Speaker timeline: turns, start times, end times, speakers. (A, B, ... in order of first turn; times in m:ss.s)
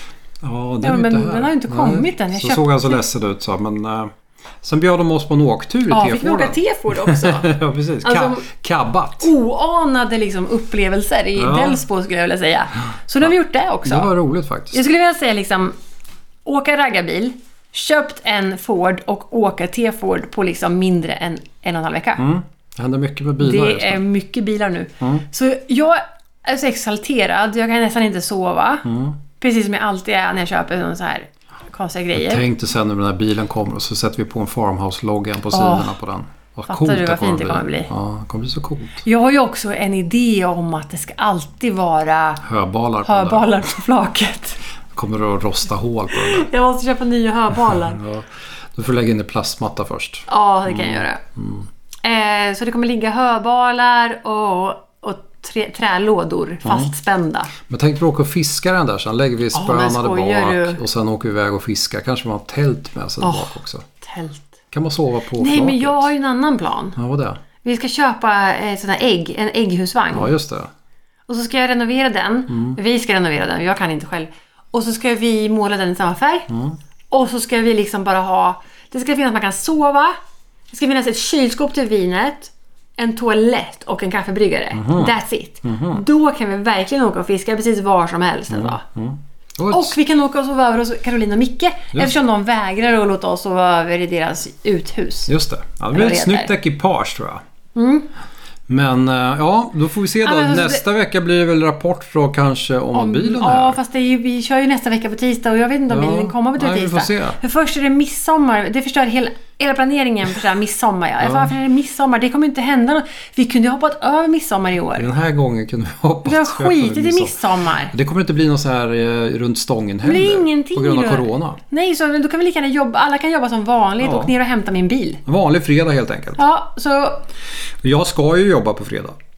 0:00.4-0:04.1 A
0:00.8-0:03.0 B
0:04.6-0:09.3 A
0:05.9-0:07.5 B
0:08.0-0:08.5 B
0:09.2-0:14.1 B
0:11.4-0:11.8 A
0:13.8-0:14.8 A
0:14.7-0:15.8 B
0:16.4-0:22.2 B
0:22.2-0:24.0 A
0:23.4-0:28.9 B
0:28.9-0:29.2 A
0:29.4-0:32.5 B
0:32.1-0:39.0 A
0:35.5-0:35.9 B
0:36.7-0:37.9 B
0:39.0-0:42.4 B
0:42.4-0:43.6 A
0:43.0-0:44.6 B
0:45.0-0:46.5 A
0:46.1-0:48.0 B
0:47.7-0:51.7 A
0:50.3-0:51.2 B
0:52.0-0:57.5 B
0:56.6-0:56.9 A
0:57.6-1:03.9 A
0:59.5-1:00.8 B
1:03.2-1:04.6 B
1:04.7-1:06.1 A
1:05.4-1:07.0 B
1:07.0-1:07.4 A
1:07.6-1:10.3 B
1:10.1-1:10.7 A
1:11.3-1:16.5 B
1:12.5-1:12.8 A
1:16.5-1:16.8 A
1:17.1-1:20.2 B
1:20.7-1:28.8 B
1:24.7-1:26.0 A
1:28.5-1:30.0 A
1:29.7-1:35.3 B
1:35.3-1:37.4 A
1:35.9-1:36.5 B
1:37.8-1:38.1 B
1:38.7-1:43.8 A
1:40.2-1:40.8 B
1:42.9-1:55.1 B
1:45.9-1:47.4 A
1:51.2-1:51.5 A
1:55.0-2:01.6 A
1:56.2-1:57.9 B
2:00.0-2:05.2 B
2:04.0-2:04.3 A
2:05.3-2:06.4 A
2:06.4-2:07.3 B
2:07.8-2:09.2 A